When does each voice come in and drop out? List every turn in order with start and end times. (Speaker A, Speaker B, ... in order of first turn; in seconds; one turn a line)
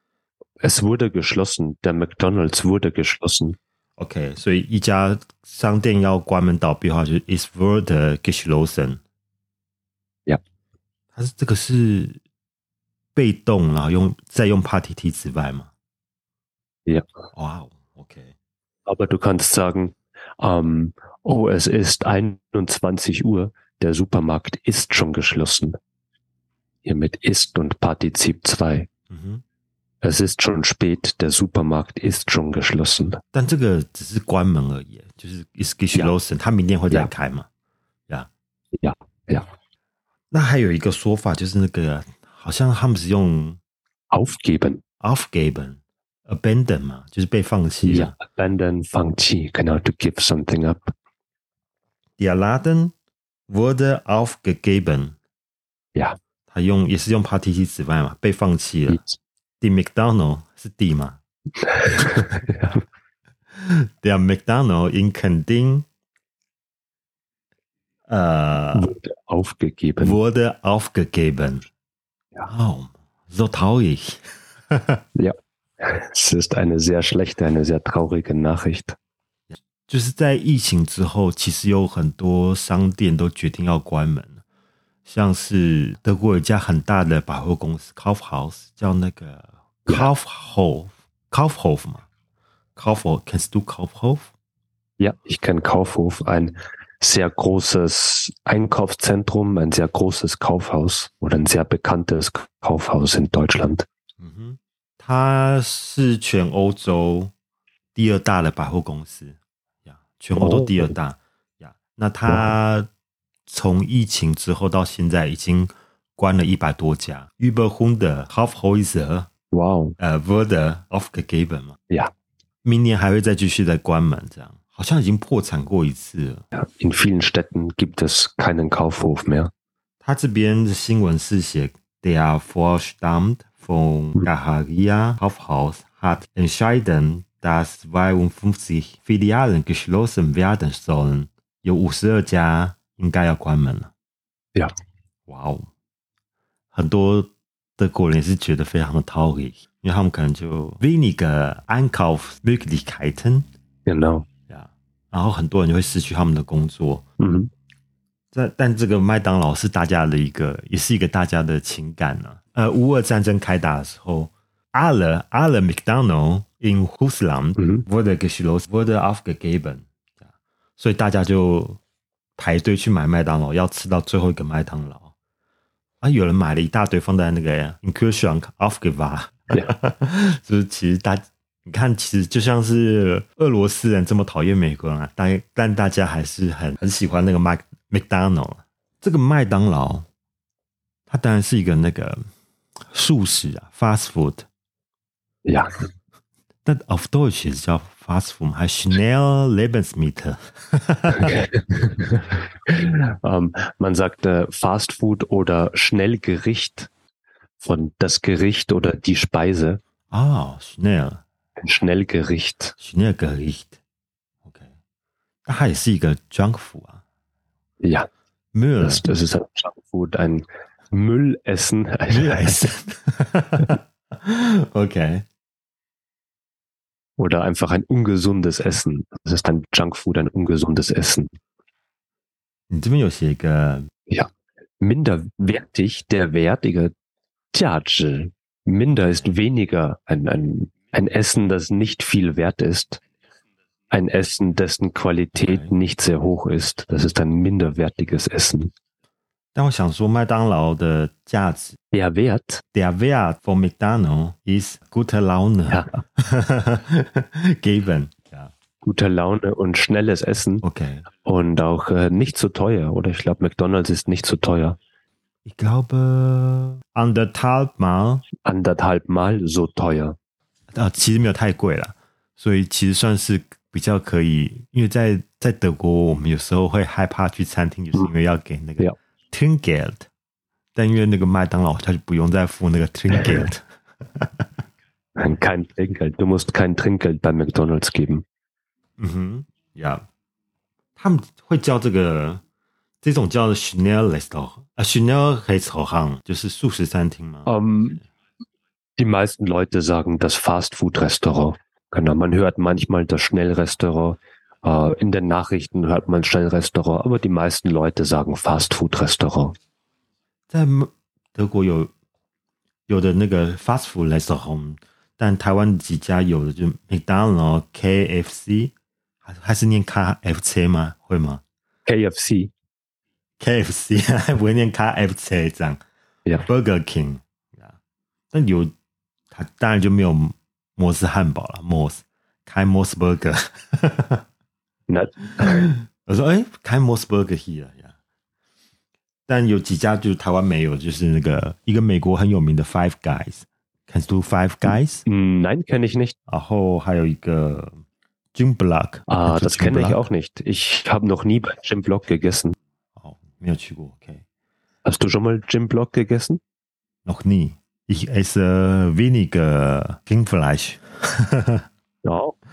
Speaker A: 0.6-3.6
Speaker B: 4.0-9.0
Speaker B: 11.1-12.2
Speaker B: 13.1-15.7
Speaker B: 17.3-18.3
Speaker A: 18.9-25.8
Speaker A: 26.8-28.9
Speaker B: 29.1-29.4
Speaker A: 30.0-33.2
Speaker B: 33.3-37.5
Speaker A: 38.7-39.5
Speaker B: 40.3-43.6
Speaker A: 44.1-44.8
Speaker B: 45.0-48.1
Speaker A: 47.9-50.9
Speaker B: 52.2-52.9
Speaker B: 53.5-55.1
Speaker B: 56.5-59.0
Speaker A: 58.9-59.2
Speaker B: 59.6-61.2
Speaker A: 61.6-62.8
Speaker B: 63.5-65.8
Speaker B: 68.1-68.9
Speaker A: 68.7-70.2
Speaker B: 70.0-71.7
Speaker B: 72.4-75.0
Speaker A: 75.2-79.0
Speaker B: 79.5-84.4
Speaker B: 85.0-92.0
Speaker B: 92.8-94.3
Speaker A: 95.0-103.8
Speaker B: 104.2-107.3
Speaker B: 107.9-112.9
Speaker A: 110.3-110.9
Speaker A: 112.3-112.5
Speaker B: 113.5-119.3
Speaker A: 119.5-120.0
Speaker B: 120.0-121.8
Speaker B: 122.6-126.4
Speaker A: 126.5-129.5
Speaker B: 130.0-143.9
Speaker B: 145.3-145.7
Speaker B: 146.7-153.5
Speaker A: 153.8-154.3
Speaker B: 154.5-157.0
Speaker A: 157.2-157.5
Speaker B: 158.3-169.9
Speaker A: 167.6-167.8
Speaker B: 170.8-171.8
Speaker B: 172.4-175.1
Speaker B: 176.0-190.1
Speaker B: 191.1-192.2
Speaker B: 192.9-194.5
Speaker A: 195.4-195.7
Speaker B: 196.6-201.4
Speaker A: 201.2-206.9
Speaker A: 207.6-209.8
Speaker B: 210.1-211.2
Speaker A: 211.6-212.7
Speaker B: 212.8-213.8
Speaker B: 214.4-214.7
Speaker B: 215.4-217.0
Speaker A: 217.8-218.1
Speaker B: 218.5-219.0
Speaker A: 218.8-222.6
Speaker B: 222.1-225.2
Speaker A: 227.2-231.3
Speaker B: 232.7-233.9
Speaker A: 234.8-236.9
Speaker A: 237.5-243.0
Speaker A: 243.9-248.7
Speaker B: 245.3-245.7
Speaker B: 249.5-251.8
Speaker A: 251.9-252.6
Speaker B: 252.7-258.5
Speaker A: 255.7-256.0
Speaker A: 258.8-260.6
Speaker B: 260.6-261.1
Speaker A: 261.2-264.8
Speaker B: 265.4-268.2
Speaker A: 268.4-270.1
Speaker B: 270.7-280.1
Speaker B: 280.7-284.5
Speaker A: 285.2-288.2
Speaker B: 289.0-290.1
Speaker B: 291.0-292.4
Speaker B: 293.0-297.5
Speaker A: 297.4-298.0
Speaker A: 299.0-309.6
Speaker B: 310.5-311.9
Speaker B: 312.9-318.7
Speaker B: 319.2-321.4
Speaker A: 321.9-322.5
Speaker B: 323.4-325.8
Speaker B: 326.4-327.7
Speaker B: 328.3-328.7
Speaker B: 329.3-334.2
Speaker A: 334.9-335.7
Speaker B: 335.4-337.9
Speaker B: 339.3-345.0
Speaker A: 344.7-346.1
Speaker B: 346.3-347.8
Speaker B: 348.3-350.0
Speaker A: 349.1-352.6
Speaker B: 353.0-354.2
Speaker A: 354.8-356.4
Speaker B: 357.0-361.7
Speaker A: 362.0-362.3